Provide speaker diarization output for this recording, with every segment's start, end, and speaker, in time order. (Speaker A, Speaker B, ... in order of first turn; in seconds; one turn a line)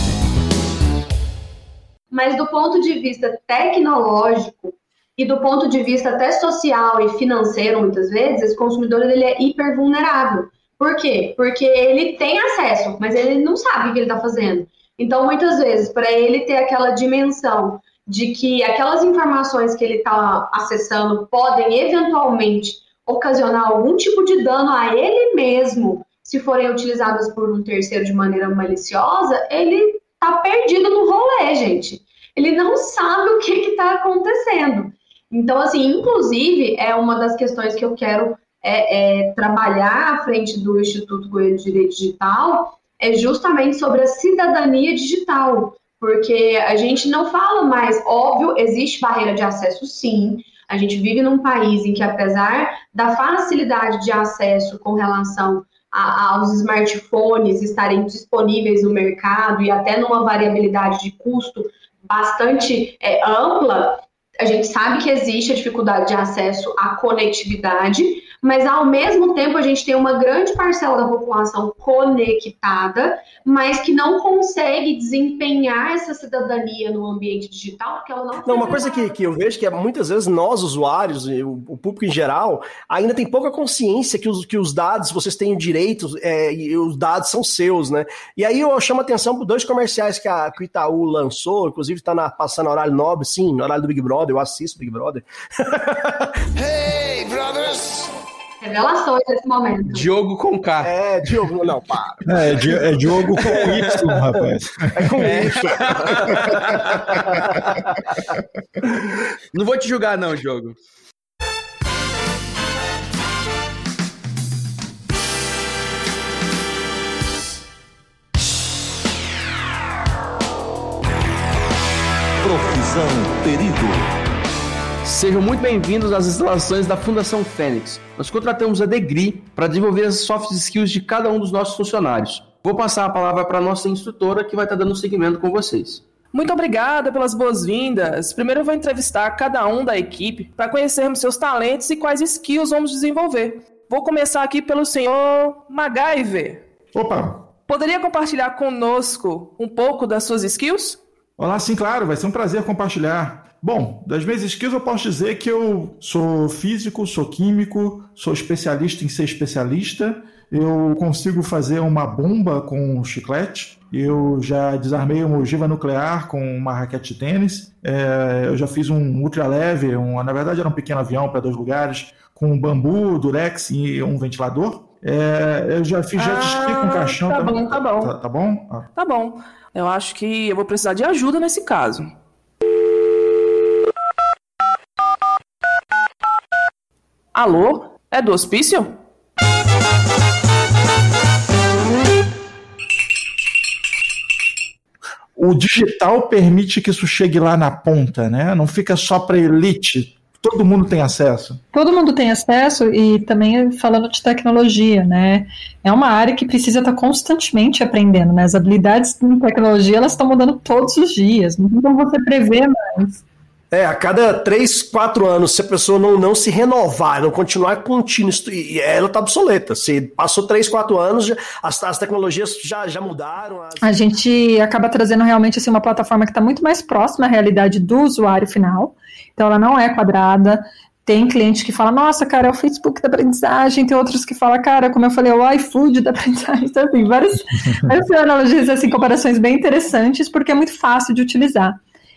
Speaker A: 2.1-79.2
Speaker B: 78.5-96.2
Speaker A: 98.6-100.1
Speaker C: 99.9-100.9
Speaker B: 100.8-102.8
Speaker D: 102.2-105.5
Speaker C: 103.5-104.0
Speaker B: 103.5-103.8
Speaker B: 105.0-107.9
Speaker C: 105.2-107.2
Speaker C: 109.5-110.8
Speaker D: 122.5-123.9
Speaker C: 125.0-136.0
Speaker E: 136.3-146.6
Speaker D: 146.9-147.5
Speaker E: 147.7-151.0
Speaker D: 151.4-178.9
Speaker E: 176.2-178.1
Speaker E: 179.0-182.1
Speaker E: 187.3-189.0
Speaker D: 195.4-201.6
Speaker F: 201.7-213.2
Speaker B: 213.7-223.8
Speaker F: 223.8-241.8